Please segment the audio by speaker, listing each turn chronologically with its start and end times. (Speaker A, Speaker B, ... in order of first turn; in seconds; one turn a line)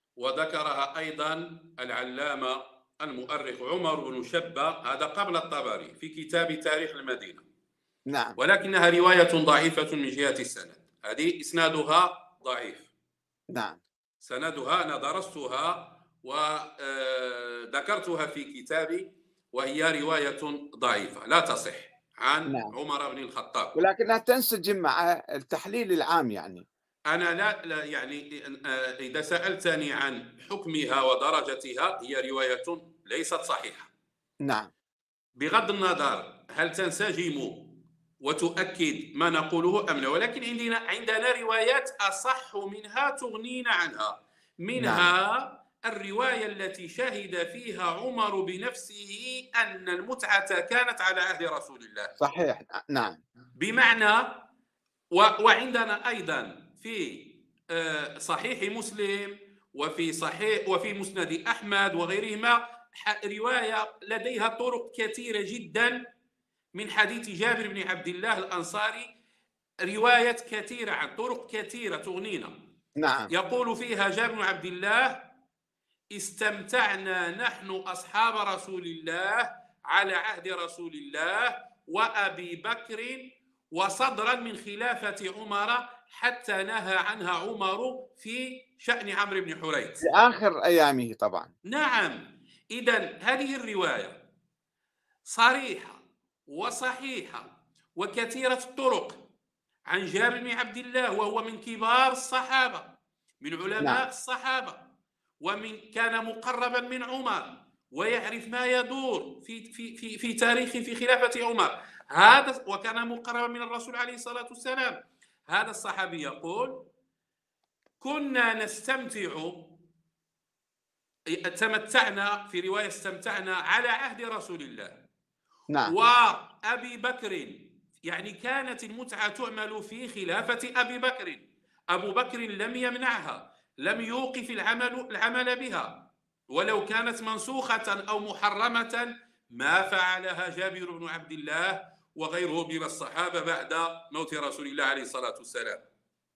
Speaker A: 0.2-7.4
Speaker B: 8.1-8.4
Speaker A: 8.4-12.9
Speaker B: 13.5-13.8
Speaker A: 14.2-23.7
Speaker B: 22.5-22.7
Speaker B: 23.7-26.6
Speaker A: 27.1-33.9
Speaker B: 34.4-34.7
Speaker A: 35.4-37.6
Speaker A: 38.2-52.1
Speaker B: 44.8-45.1
Speaker B: 52.2-53.2
Speaker A: 53.6-54.4
Speaker A: 55.1-66.0
Speaker A: 66.7-69.1
Speaker A: 69.8-72.5
Speaker B: 73.0-73.3
Speaker A: 73.3-75.2
Speaker A: 76.1-90.0
Speaker B: 90.0-91.5
Speaker A: 91.7-92.2
Speaker A: 92.7-94.2
Speaker A: 95.3-99.2
Speaker A: 99.9-104.8
Speaker A: 105.4-116.7
Speaker A: 118.0-119.7
Speaker A: 121.3-125.0
Speaker A: 125.8-145.8